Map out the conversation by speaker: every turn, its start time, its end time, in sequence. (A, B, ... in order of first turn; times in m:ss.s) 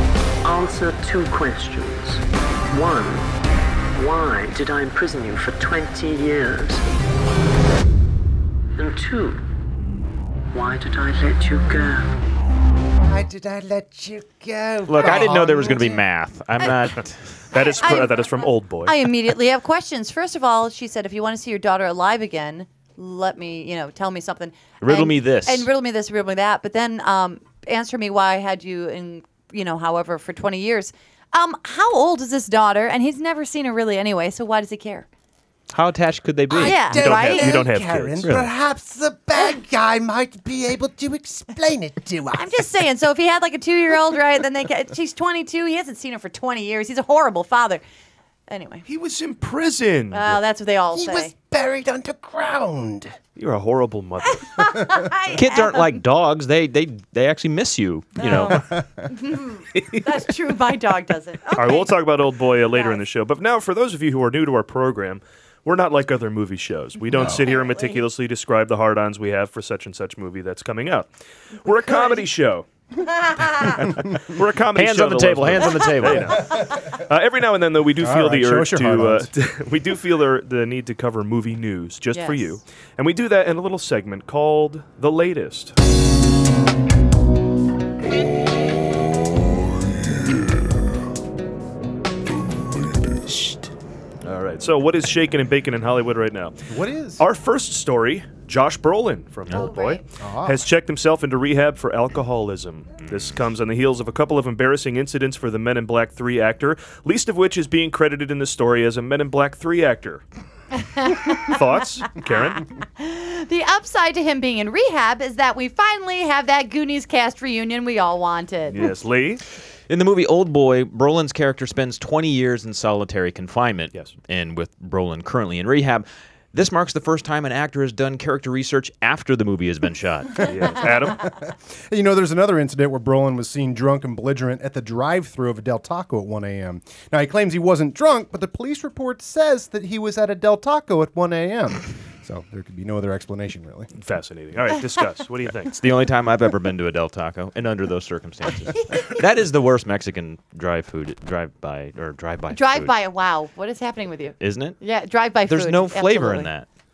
0:00.4-0:03.3 A
0:03.9-0:06.8 A
0:08.8-0:09.4 A
0:10.5-0:12.1 A
0:13.0-0:16.0 B
0:14.9-0:17.4 C
0:15.0-0:16.0 D
0:16.6-0:16.9 D
0:17.5-0:19.1 E
0:17.5-0:35.1 D
0:24.8-0:25.7 C
0:35.7-0:36.8 C
0:36.5-0:42.7 B
0:36.6-0:37.6 D
0:36.9-0:38.3 E
0:38.2-0:38.5 C
0:42.3-0:47.8 D
0:48.5-0:48.8 D
0:48.8-0:50.4 E
0:50.1-0:51.3 D
0:50.9-0:53.1 B
0:53.4-0:54.6 E
0:54.3-0:56.0 D
0:55.3-0:58.7 C
0:58.2-1:01.9 D
0:58.5-0:58.8 B
0:59.7-1:00.1 C
1:01.6-1:11.1 E
1:02.7-1:03.0 D
1:07.2-1:08.0 D
1:11.6-1:12.6 E
1:11.6-1:12.2 D
1:13.3-1:13.7 D
1:13.7-1:16.5 C
1:13.9-1:25.7 E
1:16.0-1:16.8 B
1:18.0-1:19.3 B
1:22.1-1:22.6 D
1:34.2-1:36.5 E
1:36.7-1:37.2 B
1:37.2-1:50.2 E
1:39.5-1:40.0 D
1:40.2-1:40.6 B
1:50.8-1:51.6 D
1:51.3-1:52.6 E
1:52.2-1:58.8 D
1:58.7-1:59.4 E
1:59.9-2:10.8 C
2:10.4-2:11.3 E
2:10.6-2:23.9 B
2:23.9-2:25.7 E
2:25.7-2:32.9 C
2:32.5-2:36.5 D
2:34.4-2:34.8 C
2:35.5-2:36.7 C